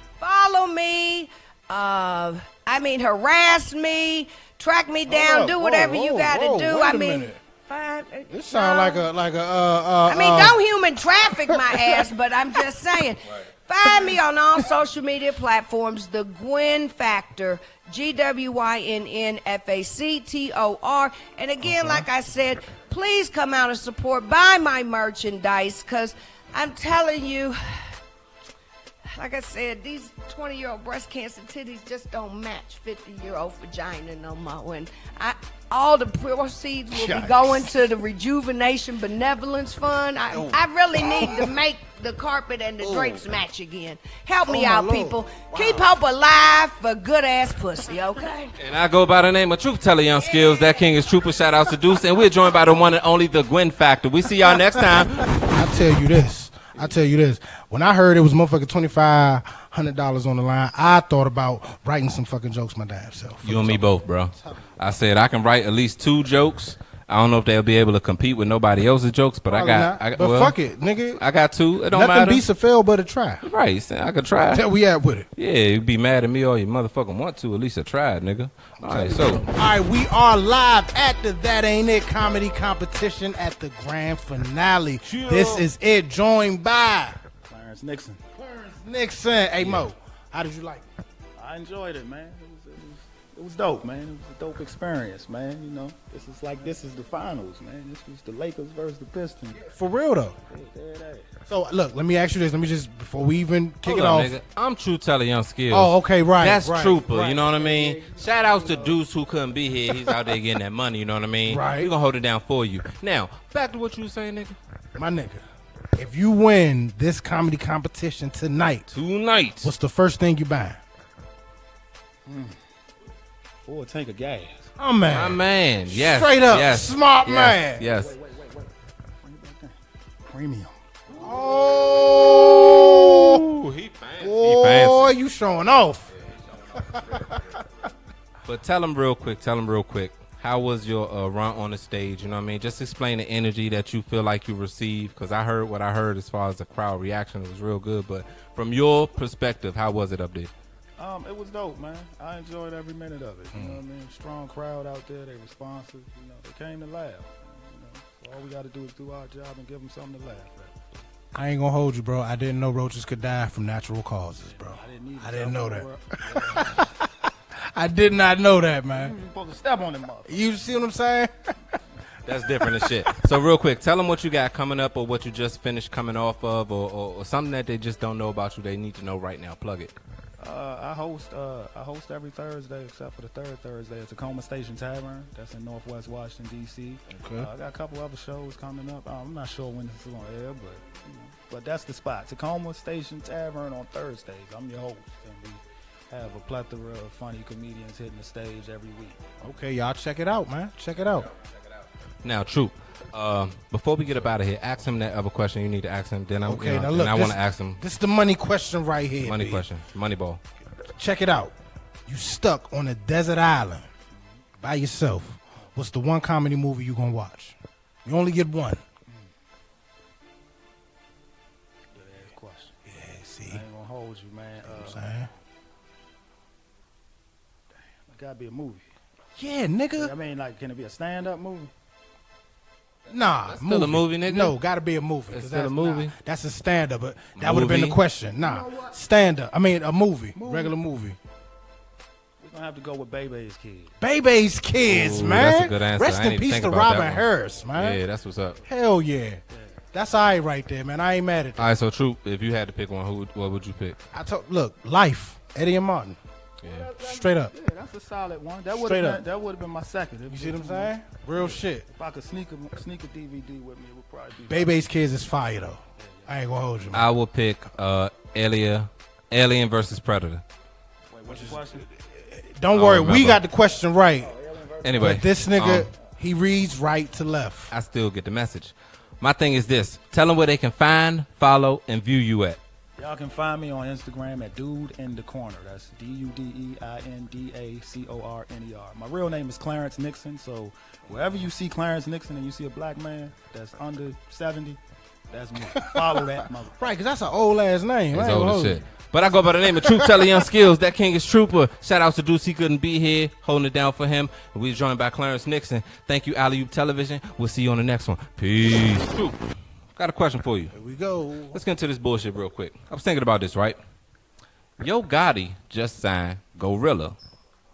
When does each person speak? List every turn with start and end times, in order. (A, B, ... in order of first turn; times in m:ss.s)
0:00.2-0:09.0 A
0:05.1-0:07.4 B
0:08.3-0:10.6 B
0:10.1-0:27.6 A
0:11.5-0:12.6 B
0:13.8-0:14.6 B
0:21.6-0:22.0 B
0:29.1-0:48.5 A
0:36.9-0:37.7 B
0:40.3-0:41.5 B
0:42.8-0:43.3 B
0:44.4-0:45.9 B
0:48.6-0:55.3 C
0:50.2-0:51.0 A
0:55.3-1:04.8 B
1:03.4-1:10.5 C
1:09.5-1:11.2 B
1:11.2-1:12.4 C
1:11.9-1:13.4 B
1:13.4-1:14.6 C
1:14.5-1:15.3 B
1:15.4-1:19.5 C
1:18.8-1:27.2 B
1:25.0-1:25.7 C
1:27.5-1:28.2 D
1:28.4-1:30.8 B
1:29.6-1:29.9 C
1:31.4-1:39.6 D
1:39.6-1:40.4 B
1:40.5-1:41.4 D
1:41.5-1:44.4 B
1:43.8-1:54.6 C
1:45.7-1:48.0 B
1:47.9-1:48.9 D
1:51.4-1:51.9 B
1:54.9-1:55.4 B
1:56.0-1:58.9 B
1:58.9-1:59.7 C
1:59.6-2:00.8 B
2:02.3-2:02.6 D
2:03.6-2:04.7 D
2:04.8-2:07.8 B
2:05.1-2:08.2 C
2:07.8-2:09.8 D
2:10.3-2:13.4 B
2:13.1-2:15.1 C
2:14.2-2:16.1 B
2:16.7-2:17.6 B
2:18.4-2:30.5 C
2:31.0-2:40.9 D
2:33.5-2:33.8 B
2:41.3-2:49.1 B
2:44.4-2:46.8 D
2:48.9-2:50.4 D
2:50.2-2:51.3 B
2:52.2-2:59.9 C
2:52.4-2:53.1 B
3:00.4-3:19.2 D
3:07.1-3:07.5 B
3:19.4-3:21.3 B
3:22.2-3:27.8 C
3:26.4-3:29.6 B
3:29.2-3:30.4 C
3:30.9-3:33.9 B
3:34.1-3:34.4 D
3:34.6-3:38.8 B
3:41.9-3:42.8 D
3:42.8-3:43.6 B
3:43.5-3:45.2 D
3:44.6-3:45.3 B
3:48.1-3:48.9 D
3:49.4-3:50.1 B
3:50.0-3:51.7 D
3:53.1-4:01.2 B
3:53.4-3:54.6 C
3:55.3-3:56.1 C
3:57.3-3:58.0 C
3:58.4-3:58.9 D
4:00.3-4:00.7 D
4:02.4-4:04.0 D
4:04.0-4:08.0 B
4:04.8-4:08.6 C
4:08.6-4:09.4 B
4:09.5-4:09.8 D
4:09.9-4:11.7 B
4:11.6-4:14.0 C
4:14.1-4:16.2 B
4:16.6-4:16.9 C
4:16.7-4:24.7 D
4:17.0-4:17.5 B
4:18.7-4:19.2 B
4:20.3-4:21.9 B
4:24.5-4:27.1 B
4:26.0-4:26.4 D
4:26.9-4:30.4 C
4:31.1-4:31.9 D
4:31.3-4:34.3 B
4:32.7-4:33.4 C
4:34.2-4:34.9 D
4:34.8-4:35.9 C
4:35.0-4:37.7 B
4:37.7-4:42.6 C
4:43.0-4:56.8 D
4:55.7-4:58.8 B
4:58.1-5:09.4 C
4:59.7-5:00.5 B
5:10.0-5:10.7 C
5:10.7-5:11.6 B
5:11.5-5:13.8 C
5:14.8-5:17.2 C